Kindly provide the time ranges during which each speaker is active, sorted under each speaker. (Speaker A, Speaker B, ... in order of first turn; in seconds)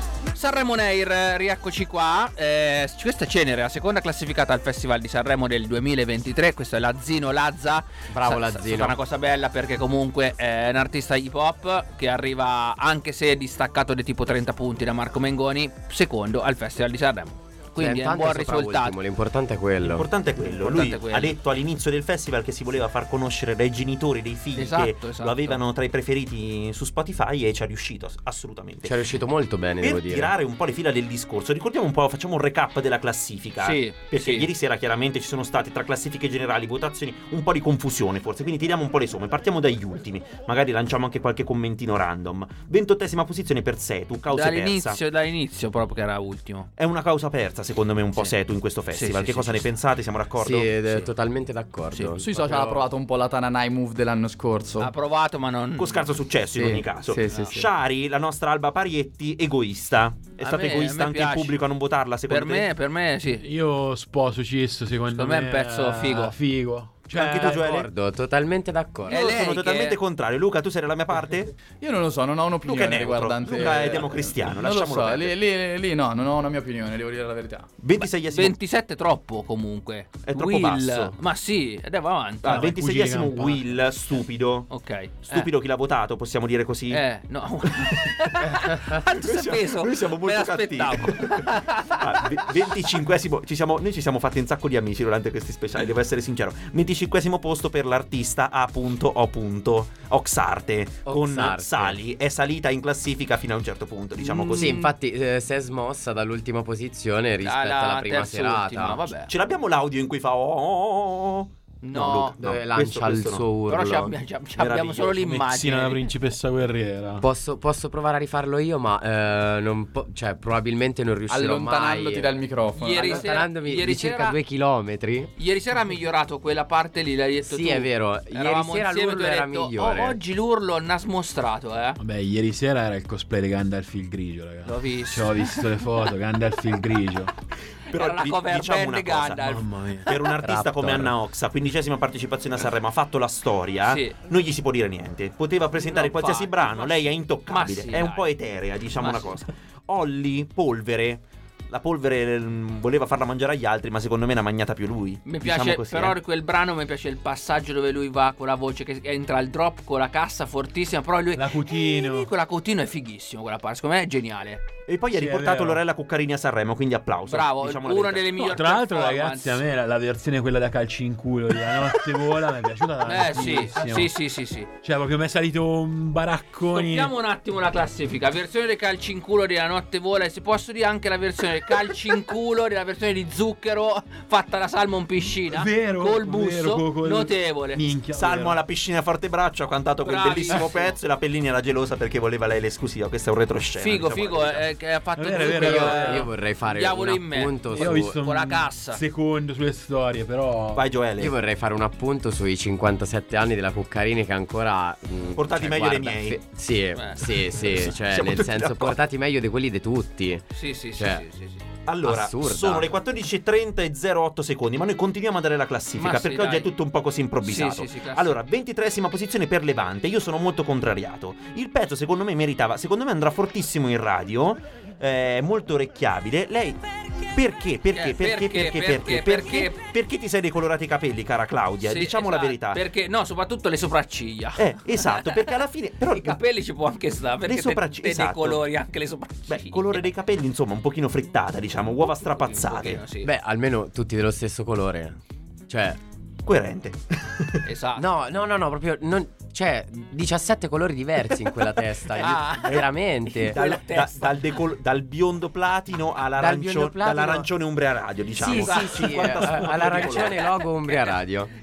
Speaker A: 0.3-19.0, 20.6-21.3, 24.6-25.6, 33.6-34.5, 44.3-46.7, 48.9-49.7, 54.8-56.1, 60.4-61.6, 62.3-63.4, 65.1-66.3, 69.1-70.0, 78.0-82.6, 84.7-85.5, 86.9-92.0, 104.2-104.9, 107.4-109.3, 111.8-112.4, 113.7-116.1, 122.8-124.4, 125.4-132.0, 134.6-135.7, 137.9-140.2, 143.8-144.2, 145.8-148.3, 149.0-149.4, 155.2-164.6, 167.3-169.6, 173.1-174.7, 176.7-187.8, 190.0-191.0, 193.8-199.0, 206.9-207.4, 210.5-211.6, 216.0-216.7, 217.4-218.3, 227.9-229.8, 231.8-235.5, 236.1-240.1, 242.0-243.3, 247.6-248.1, 252.2-254.4, 258.5-261.1
Speaker B: 8.1-9.0, 17.8-20.1, 28.8-30.3, 50.4-52.8, 57.0-57.6, 67.2-69.2, 101.0-102.0, 104.4-109.1, 112.4-114.2, 117.2-122.4, 123.0-125.3, 127.5-130.2, 195.4-198.2, 201.2-211.2, 212.0-212.9, 243.2-245.2, 245.7-246.0, 247.9-253.6, 256.4-257.5, 258.4-261.5
Speaker C: 19.8-29.0, 29.8-45.0, 46.8-51.1, 55.8-62.7, 67.1-67.9, 69.1-71.5, 72.6-75.3, 77.8-78.6, 80.2-81.2, 82.4-84.7, 85.2-87.0, 87.8-104.8, 109.3-113.5, 114.6-115.4, 137.9-139.5, 140.1-156.2, 164.9-168.5, 188.1-194.6, 200.7-201.3, 205.3-206.4, 207.6-209.0, 211.9-232.8, 234.6-236.4, 237.4-238.6, 239.5-243.0, 246.4-247.6, 253.5-260.5
Speaker D: 52.2-54.9, 56.6-56.8, 71.8-77.7, 121.3-123.3
Speaker E: 63.4-67.6, 82.4-83.6, 115.2-117.2, 132.0-137.3, 139.4-141.1, 161.3-162.3, 165.1-165.8, 168.4-174.1, 174.8-177.1, 185.5-188.6, 195.2-196.3, 197.7-200.8